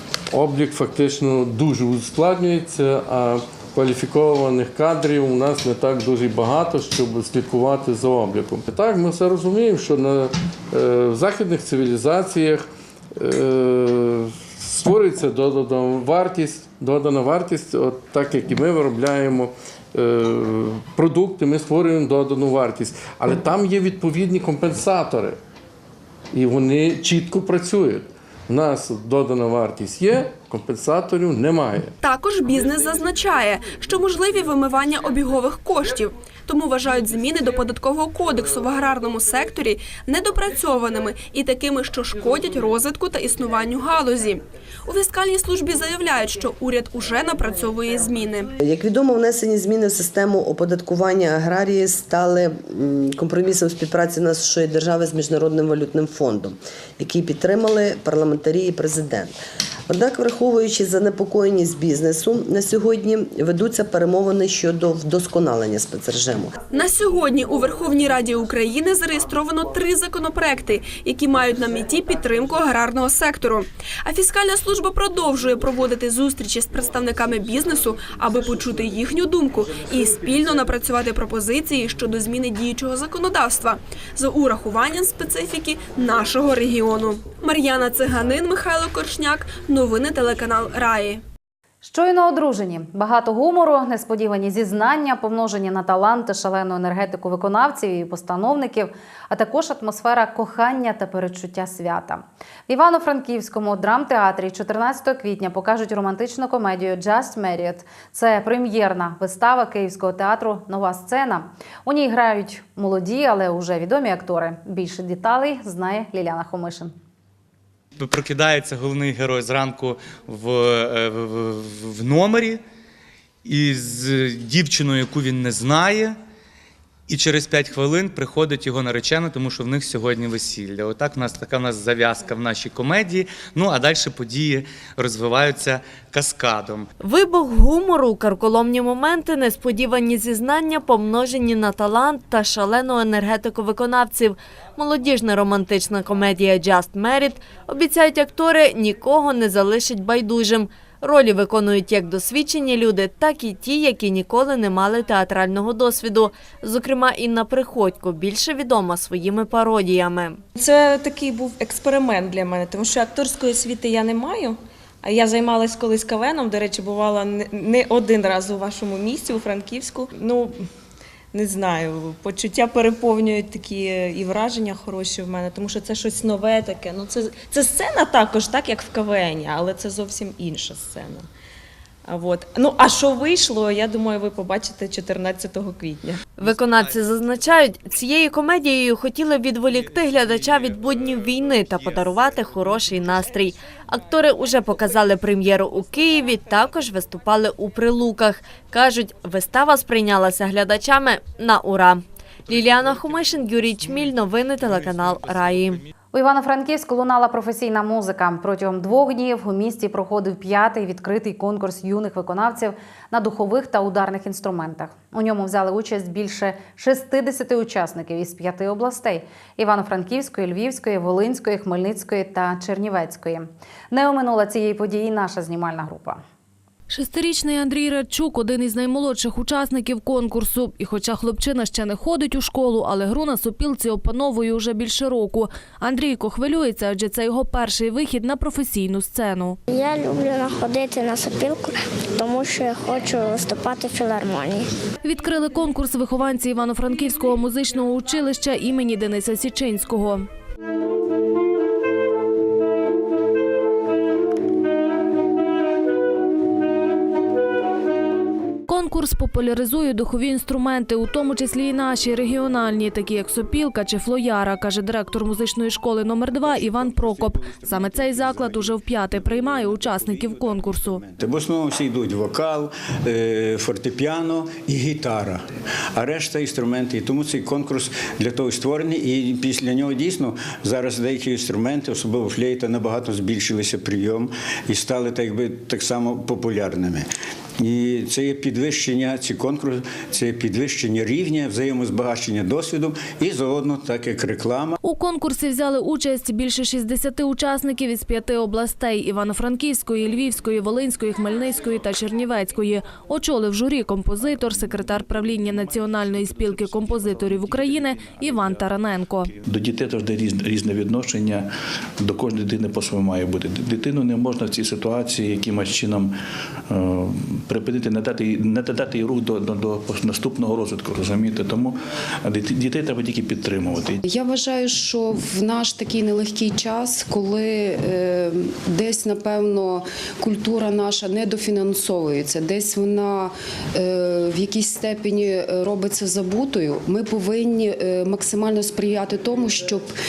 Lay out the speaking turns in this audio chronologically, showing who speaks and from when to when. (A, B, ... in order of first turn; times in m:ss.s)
0:00.3-0:25.4 A
0:26.3-0:31.9 A
0:32.0-0:48.5 B
0:48.6-0:59.3 C
0:59.9-1:06.5 C
1:06.7-1:31.2 B
1:31.8-1:56.9 D
1:58.0-2:02.6 E
2:03.4-2:06.2 E
2:07.1-2:16.9 E
2:17.0-2:40.4 F
2:40.5-2:50.6 G
2:51.3-3:01.3 G
3:02.0-3:06.2 G
3:06.4-3:25.8 F
3:26.1-3:46.2 D
3:46.9-3:59.6 H
3:59.7-4:04.7 I
4:05.0-4:10.3 H
4:18.7-4:31.0 H
4:30.6-4:47.1 J
4:47.6-4:54.8 J
4:54.8-5:09.3 H
5:06.1-5:08.5 K
5:09.3-5:16.2 K
5:16.7-5:24.0 K
5:24.0-5:39.9 L